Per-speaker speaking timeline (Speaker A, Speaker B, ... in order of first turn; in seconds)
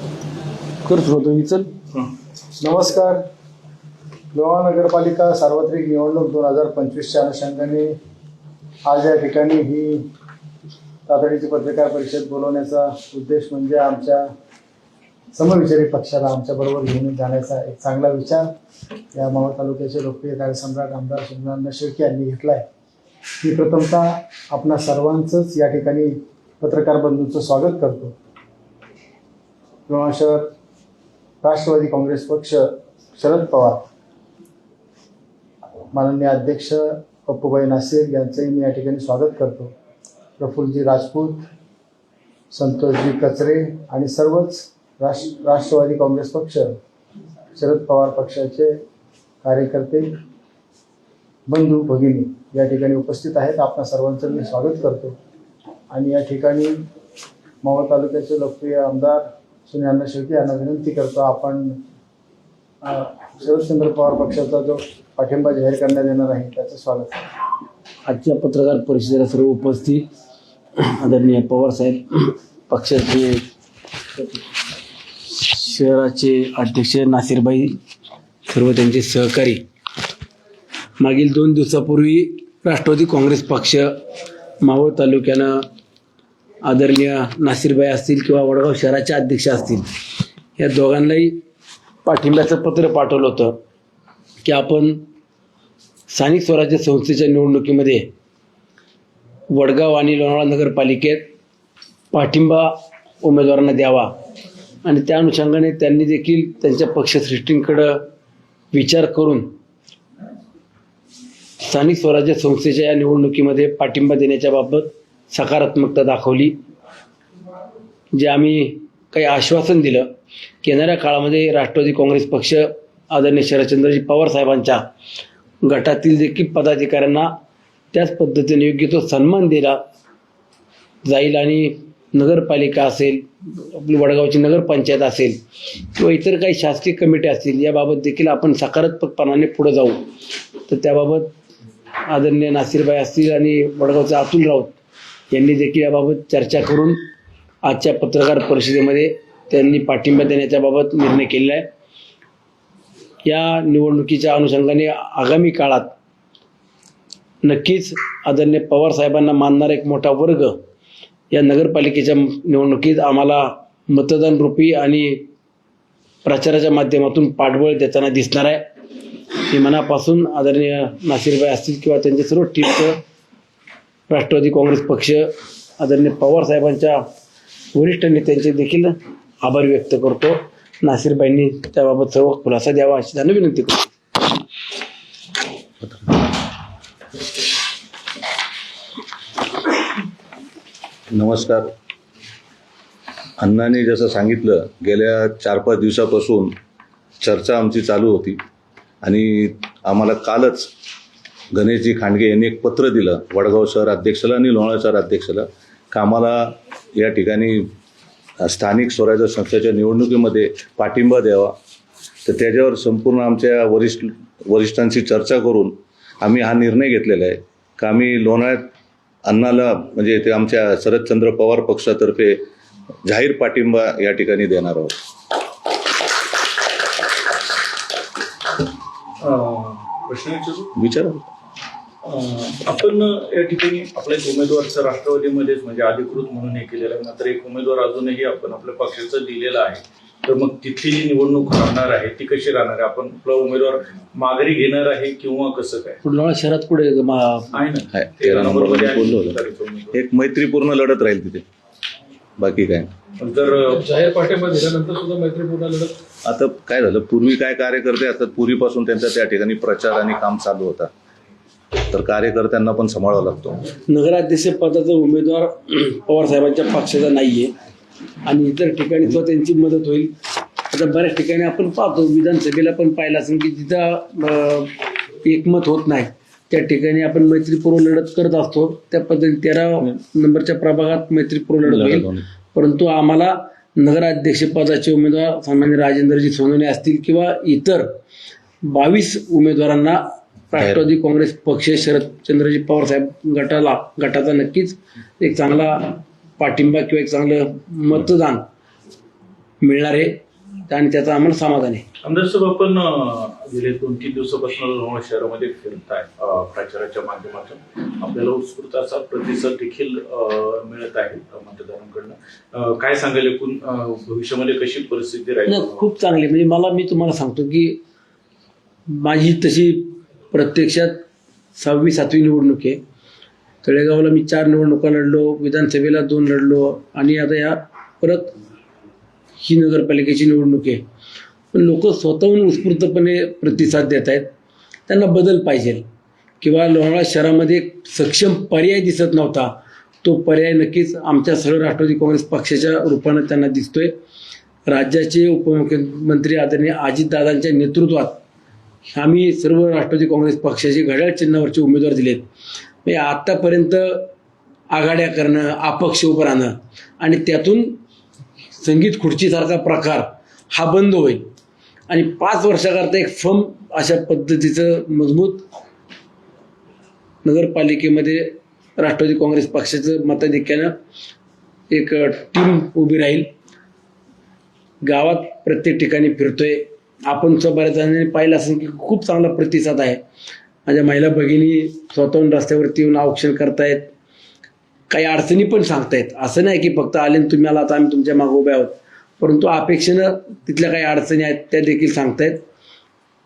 Speaker A: 0.8-1.7, 68.0-70.0, 70.8-73.4, 75.3-77.8, 78.5-79.6, 81.0-83.9, 84.6-85.6, 86.6-89.9, 90.6-91.3, 92.0-93.5, 94.4-95.0, 96.1-98.1, 99.5-101.3, 102.1-104.1, 104.8-108.0, 108.7-109.5, 111.6-116.5, 118.1-120.1, 120.6-124.8, 125.6-127.3, 127.9-129.8, 131.0-135.4, 135.9-140.0, 140.6-141.3, 142.1-144.7, 145.3-147.0, 147.6-151.7, 153.2-155.9, 157.4-160.6, 161.3-165.3, 166.2-168.6, 169.5-173.0, 174.1-175.2, 175.8-177.0, 177.7-183.9, 246.0-247.5, 263.9-267.5, 268.2-270.1, 270.7-287.9, 288.6-298.4, 299.6-301.8, 315.5-317.8, 318.9-321.0, 321.6-322.8, 323.6-328.3, 329.4-330.8, 331.5-334.3, 334.9-335.8, 336.4-343.9, 344.7-348.2, 348.9-352.2, 352.8-354.1, 354.7-357.8, 358.6-361.2, 361.9-365.4, 367.2-370.7, 371.7-373.3, 374.8-380.0, 380.6-383.9, 384.9-392.4
Speaker B: 2.6-3.2, 4.3-7.9, 8.8-10.1, 11.1-14.2, 15.3-18.5, 19.1-22.6, 23.4-28.1, 29.9-30.5, 31.4-32.6, 33.2-33.8, 35.9-39.7, 40.4-41.4, 42.5-46.7, 47.5-48.7, 49.4-50.1, 51.5-55.1, 55.9-56.8, 57.6-61.8, 62.8-67.2
Speaker C: 185.8-186.2, 191.1-191.7, 193.4-196.5, 197.2-198.4, 199.0-200.7, 201.5-207.7, 208.4-211.6, 212.2-218.7, 219.2-222.4, 223.0-224.9, 230.8-231.3, 247.9-249.4, 249.9-251.4, 252.4-252.9, 256.2-260.9, 261.9-263.6, 281.6-282.2
Speaker D: 229.2-230.7, 232.0-246.0, 247.5-250.0, 253.2-253.8, 302.0-315.8
Speaker E: 253.8-255.9